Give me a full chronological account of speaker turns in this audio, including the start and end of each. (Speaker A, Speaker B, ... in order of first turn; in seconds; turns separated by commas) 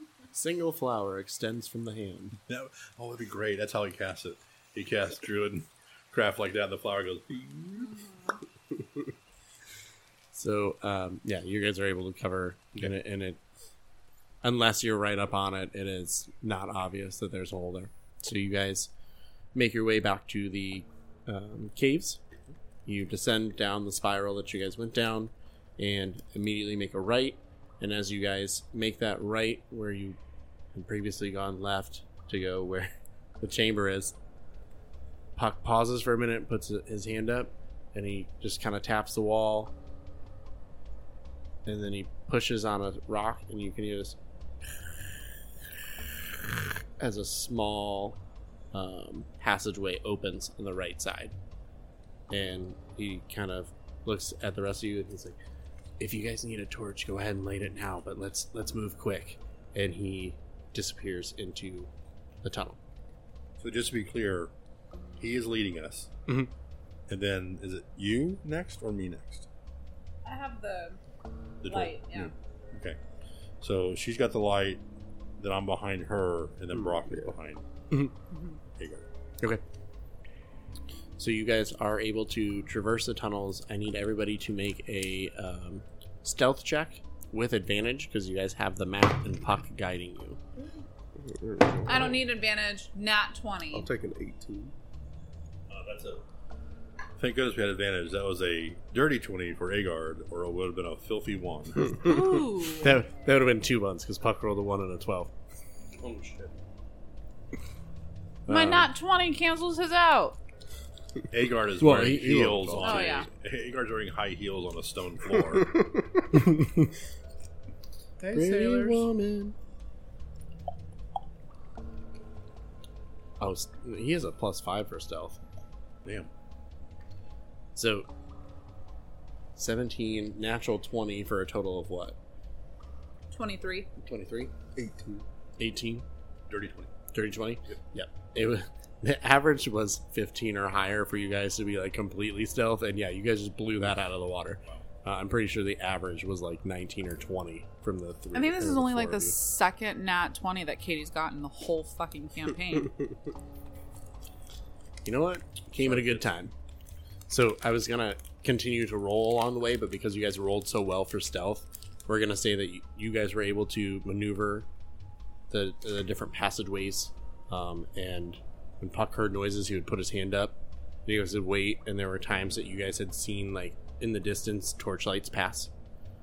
Speaker A: 0.3-2.4, Speaker B: 2.5-7.9, Speaker C: 7.8-8.4, Speaker A: 10.3-13.4, Speaker A: 14.4-18.9, Speaker A: 19.5-22.2, Speaker A: 22.8-30.2, Speaker A: 30.7-34.1, Speaker A: 35.4-39.7, Speaker A: 41.6-44.2, Speaker A: 47.0-48.2, Speaker A: 48.7-51.3, Speaker A: 52.3-55.4, Speaker A: 56.0-61.9, Speaker A: 62.4-62.8, Speaker B: 63.6-64.5, Speaker B: 65.2-66.1, Speaker B: 67.1-69.5, Speaker C: 70.2-71.0, Speaker B: 71.6-73.0, Speaker C: 71.6-72.3, Speaker B: 73.6-74.8, Speaker B: 75.4-77.7, Speaker D: 76.7-77.3, Speaker C: 78.3-78.6, Speaker B: 78.8-79.1, Speaker A: 81.2-90.4, Speaker D: 91.2-92.2, Speaker C: 91.9-93.9, Speaker D: 93.7-94.7, Speaker B: 95.7-96.2, Speaker B: 97.2-102.0, Speaker C: 102.0-103.0, Speaker A: 102.8-105.3, Speaker B: 106.0-106.5, Speaker A: 108.5-108.9, Speaker C: 108.5-110.4, Speaker B: 111.3-115.8, Speaker A: 111.8-113.2, Speaker C: 112.8-113.3, Speaker D: 115.5-116.4, Speaker A: 116.3-116.9, Speaker B: 118.2-119.0, Speaker A: 118.3-119.5, Speaker A: 123.4-125.4, Speaker B: 126.0-126.3, Speaker A: 127.7-128.1, Speaker A: 129.6-132.2, Speaker C: 133.3-133.9, Speaker A: 134.0-134.5, Speaker D: 134.7-135.2, Speaker A: 135.6-136.0, Speaker B: 136.5-136.9, Speaker A: 137.1-149.3, Speaker C: 148.3-153.0, Speaker A: 155.0-156.5, Speaker B: 155.8-156.2, Speaker A: 157.3-164.7, Speaker A: 165.5-175.7